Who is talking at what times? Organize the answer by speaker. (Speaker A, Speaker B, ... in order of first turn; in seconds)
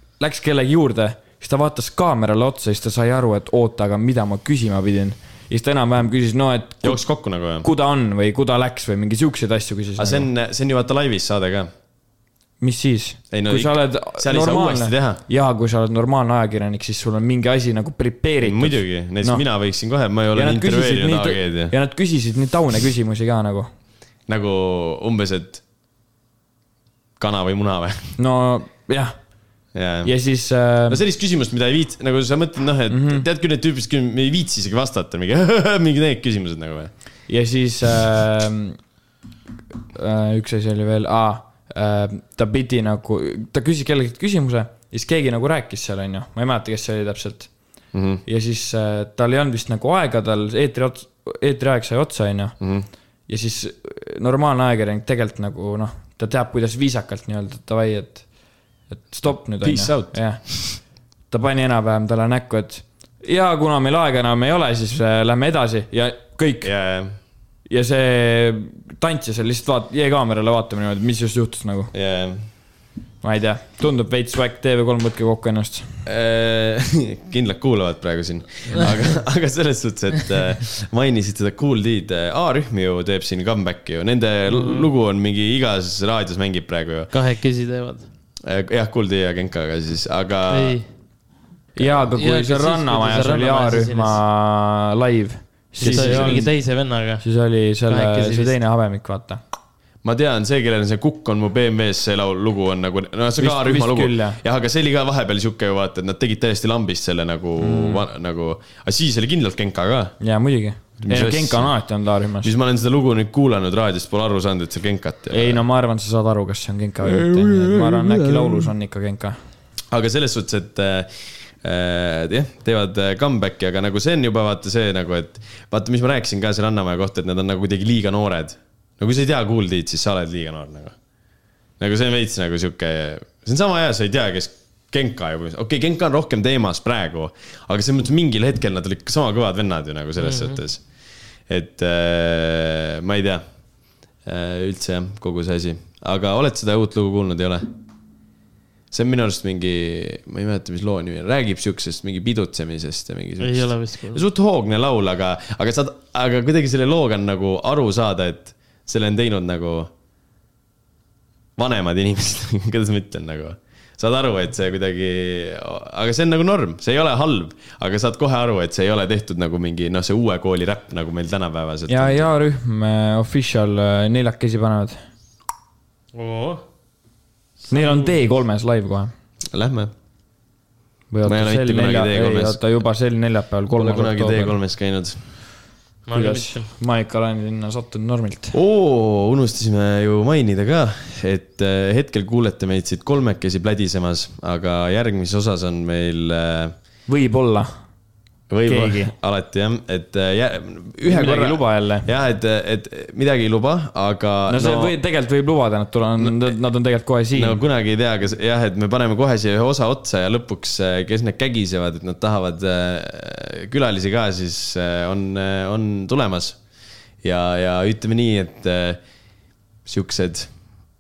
Speaker A: 0.2-7.0, 7.6-10.3, 12.6-19.4, 20.3-23.7, 28.2-29.4, 30.0-31.0, 32.9-33.3, 37.3-38.8, 40.0-47.5, 48.3-52.6, 53.3-58.3, 58.9-66.7, 67.7-71.9, 73.2-75.9, 91.8-96.5, 97.2-99.4, 103.4-104.4, 107.6-108.0, 110.2-112.5, 115.3-119.4, 171.9-175.0, 177.7-179.1, 181.1-184.6, 186.1-188.6, 197.1-197.7, 198.7-199.1, 201.1-202.1, 204.5-207.6
Speaker B: 6.8-7.7, 10.0-11.7, 13.3-15.2, 18.4-21.7, 24.3-25.6, 27.2-28.1, 29.7-30.1, 30.9-36.9, 47.9-48.2, 52.6-52.9, 59.6-60.8, 66.6-67.1, 71.9-72.4, 76.1-87.1, 88.4-90.8, 95.8-96.5, 100.0-110.2, 111.0-111.7, 112.4-115.6, 117.0-118.7, 119.9-131.0, 131.8-140.8, 141.5-143.4, 144.2-147.7, 148.9-159.9, 161.6-172.3, 179.5-179.9, 181.3-182.6, 183.8-185.2, 188.5-196.7, 198.5-204.9, 206.2-206.5, 207.3-216.6, 217.2-219.0, 219.9-220.5
Speaker C: 84.5-84.8, 87.1-88.1, 90.5-90.9, 92.2-94.2, 95.8-97.2, 97.9-98.6, 140.2-140.6, 153.4-154.2, 176.1-176.6, 177.6-178.2, 186.1-186.7